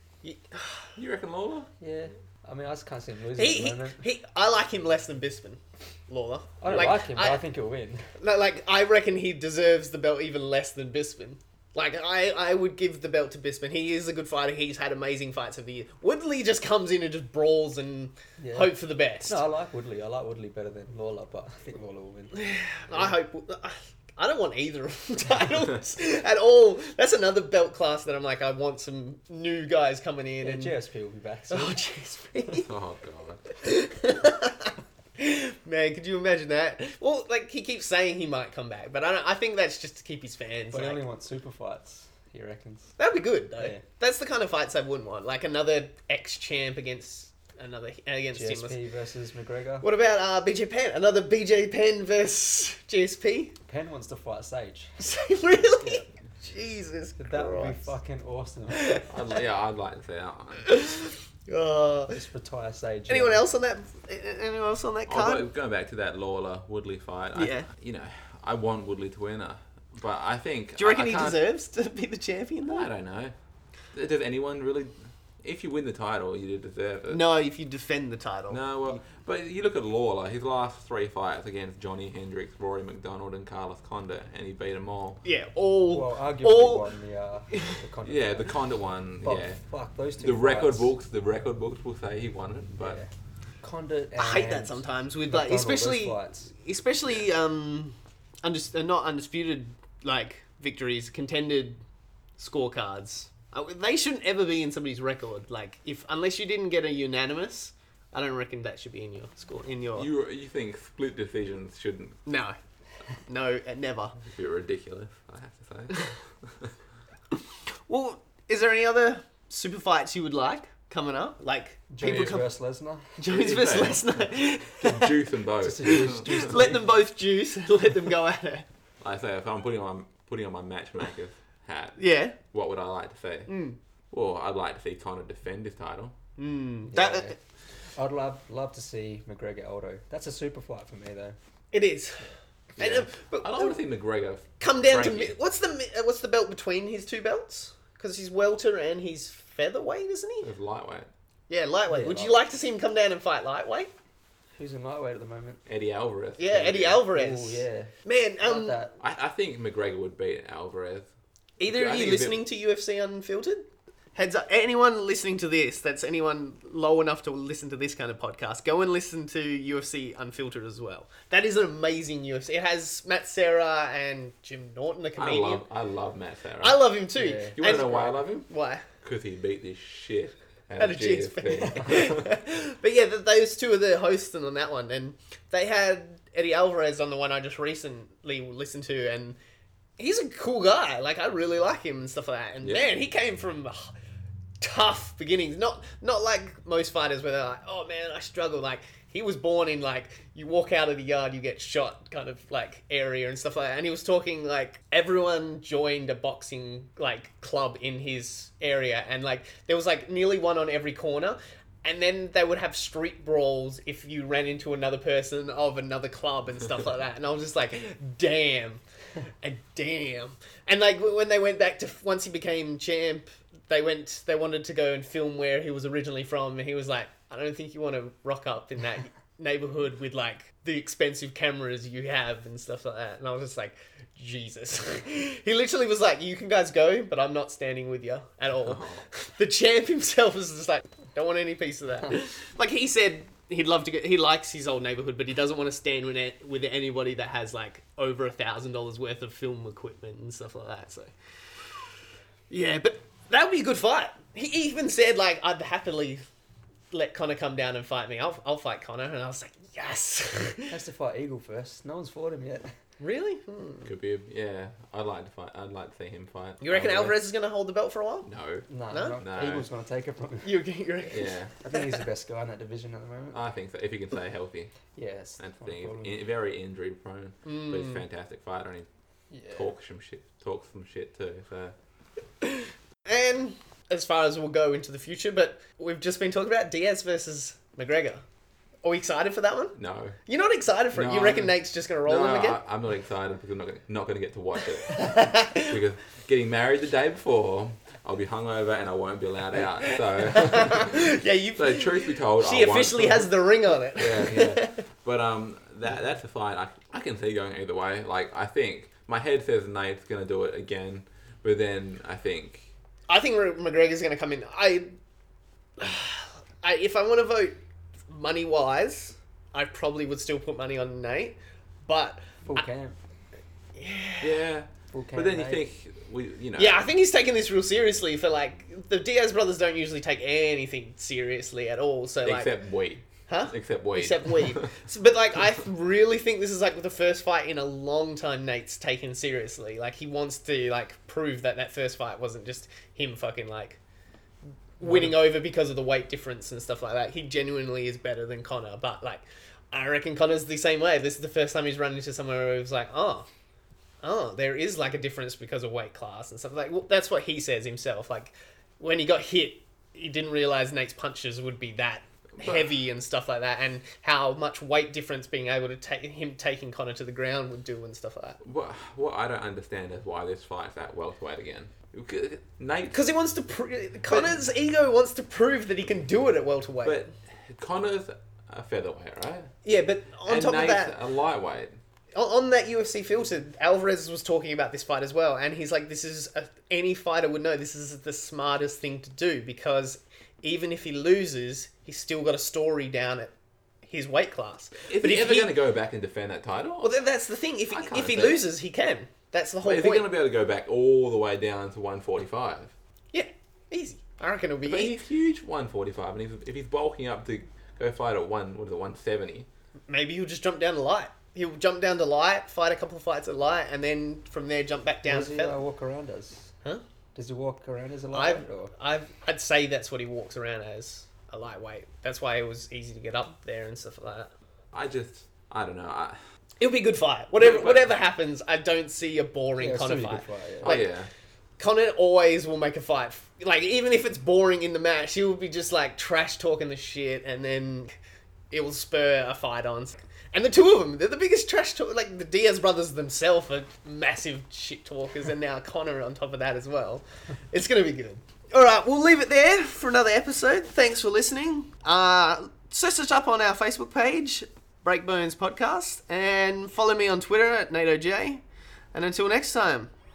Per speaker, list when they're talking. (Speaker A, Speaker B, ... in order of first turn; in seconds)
Speaker A: 0.2-0.9, 3.4-7.4, 8.2-19.4, 22.3-30.7, 31.5-32.7, 33.6-41.0, 43.0-48.8, 49.8-53.5, 55.0-57.9, 58.8-59.0, 60.6-62.2, 63.1-65.5, 67.3-67.7, 70.8-72.9, 77.1-79.0, 85.2-86.8, 94.2-101.8, 102.4-110.1, 112.2-112.5, 113.3-114.2, 117.9-122.5, 123.2-125.1, 126.2-128.7, 132.0-132.3, 133.5-133.8, 136.4-137.3, 141.7-143.8, 144.6-150.5, 151.5-153.9, 156.4-158.8, 161.6-175.6, 176.6-178.8, 180.8-189.4, 190.0-193.9, 194.6-218.8, 219.4-251.1, 252.5-256.2, 256.9-260.8, 263.0-263.9, 266.6-268.3, 268.9-269.2, 270.4-271.9, 277.4-278.0, 282.4-288.2, 288.8-292.6, 294.9-295.7, 299.9-304.8, 313.1-314.9, 315.8-317.6, 318.1-322.6, 323.7-324.4, 326.6-332.5, 333.3-343.8, 344.8-353.3, 354.0-368.4, 372.9-377.1, 379.6-380.9, 382.1-393.3, 393.8-395.5, 396.8-400.1, 403.1-405.0, 409.9-415.6, 418.1-424.3, 426.6-430.9, 431.6-438.0, 438.5-458.4, 458.9-459.9
Speaker B: 0.9-1.7, 6.7-6.9, 32.6-33.5, 59.1-60.8, 65.1-71.4, 72.7-73.3, 73.9-77.2, 78.5-85.2, 88.0-89.6, 90.2-93.0, 110.0-112.2, 114.2-116.7, 122.0-122.4, 123.3-124.2, 124.8-126.5, 129.0-133.5, 134.1-136.1, 142.8-145.3, 150.4-151.1, 155.7-157.1, 159.0-161.1, 161.7-162.4, 175.2-176.8, 177.5-178.5, 179.0-182.3, 192.6-192.9, 238.6-239.0, 263.8-267.2, 268.2-269.7, 271.1-271.6, 273.3-274.7, 275.4-278.9, 279.5-281.7, 289.8-290.2, 290.9-303.3, 303.9-312.7, 324.2-326.9, 332.2-334.8, 362.4-362.7, 368.4-373.0, 374.1-374.4, 376.8-379.5, 380.2-381.8, 394.9-397.0, 397.7-398.4, 399.6-402.7, 404.6-409.5, 424.7-426.2, 427.4-428.0, 430.6-431.1
Speaker C: 1.8-4.0, 6.6-8.1, 18.4-18.7, 19.2-22.4, 30.4-31.8, 40.7-42.9, 43.6-43.8, 48.3-49.9, 53.7-54.9, 55.8-56.0, 57.2-59.0, 62.1-63.4, 85.9-88.5, 89.2-90.9, 92.8-93.1, 93.6-96.5, 121.9-123.2, 124.8-127.0, 136.9-137.3, 137.9-141.4, 151.9-152.4, 154.6-155.6, 157.1-159.0, 177.2-177.8, 260.7-262.7, 268.7-270.6, 271.6-273.4, 274.9-276.2, 279.3-279.7, 322.4-323.0, 324.9-325.6, 344.8-345.1, 415.1-416.5, 417.1-418.7, 429.6-430.8